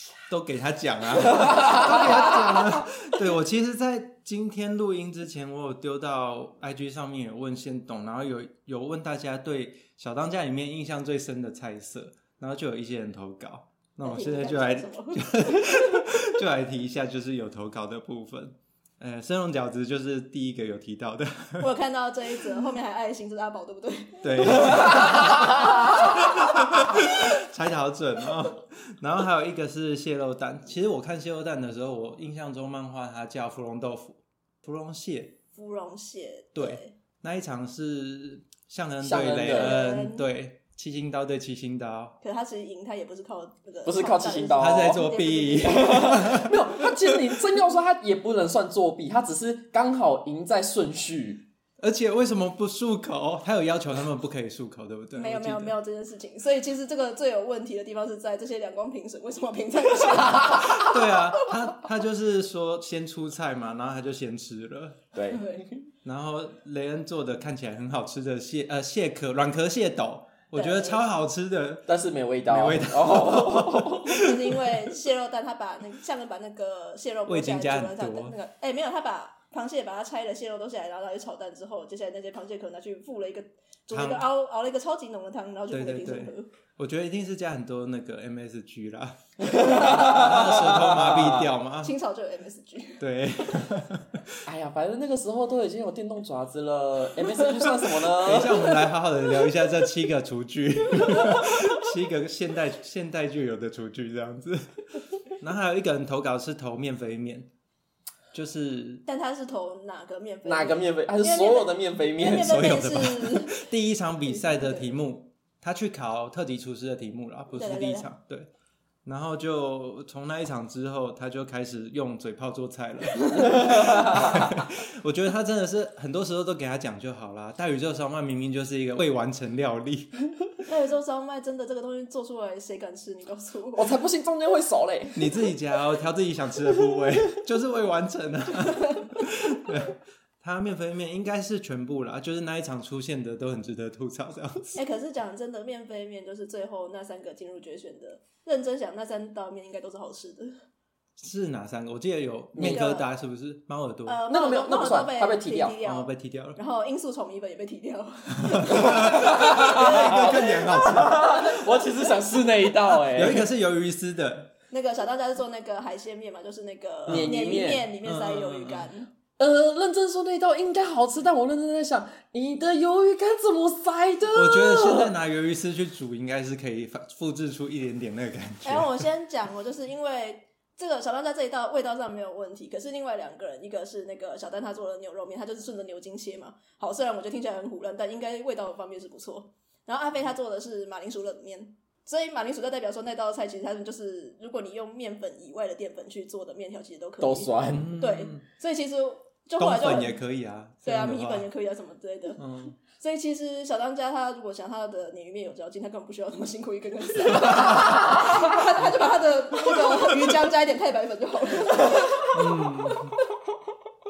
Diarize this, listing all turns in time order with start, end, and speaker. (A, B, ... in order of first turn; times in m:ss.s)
0:00.3-0:21.7 A
0:14.0-0:16.0 B
0:21.6-0:26.8 B
0:24.2-0:35.4 A
0:35.6-0:37.0 B
0:36.6-0:42.2 A
0:39.0-0:39.8 C
0:39.5-0:40.3 B
0:42.2-0:46.4 B
0:43.9-0:45.1 C
0:44.6-0:46.9 A
0:45.6-0:51.5 C
0:51.8-0:55.8 A
0:55.2-1:01.2 B
1:00.5-1:05.0 A
1:05.1-1:05.8 C
1:05.3-1:05.7 B
1:06.0-1:11.9 A
1:10.5-1:11.0 B
1:11.9-1:14.3 C
1:12.5-1:14.5 A
1:14.1-1:26.5 B
1:17.3-1:18.4 A
1:23.9-1:24.3 A
1:25.7-1:31.9 A
1:29.4-1:31.5 C
1:31.8-1:33.0 B
1:33.0-1:34.4 A
1:34.4-1:38.9 C
1:38.2-1:47.5 A
1:48.3-1:49.0 A
1:49.1-1:53.6 B
1:50.4-1:52.6 C
1:52.3-1:58.5 A
1:54.3-1:54.9 B
1:57.5-1:58.1 B
1:59.0-2:10.1 A
2:03.2-2:03.5 B
2:03.5-2:04.5 C
2:10.6-2:14.0 B
2:13.8-2:15.3 C
2:15.2-2:24.8 A
2:24.8-2:30.6 B
2:31.2-2:34.2 A
2:32.6-2:32.9 C
2:32.6-2:33.1 B
2:34.1-2:41.0 B
2:34.3-2:35.8 C
2:35.8-2:36.6 A
2:38.4-2:41.6 A
2:38.9-2:43.5 C
2:42.9-2:44.5 A
2:44.7-2:49.1 B
2:47.1-2:47.4 A
2:47.1-2:47.9 C
2:48.0-2:48.9 A
2:49.4-2:55.1 C
2:54.3-2:59.0 A
2:58.6-3:20.2 B
3:17.2-3:17.9 C
3:17.7-3:18.4 A
3:19.6-3:21.5 A
3:20.8-3:32.7 B
3:22.4-3:22.8 A
3:27.6-3:28.4 C
3:31.8-3:32.5 C
3:32.3-3:33.2 A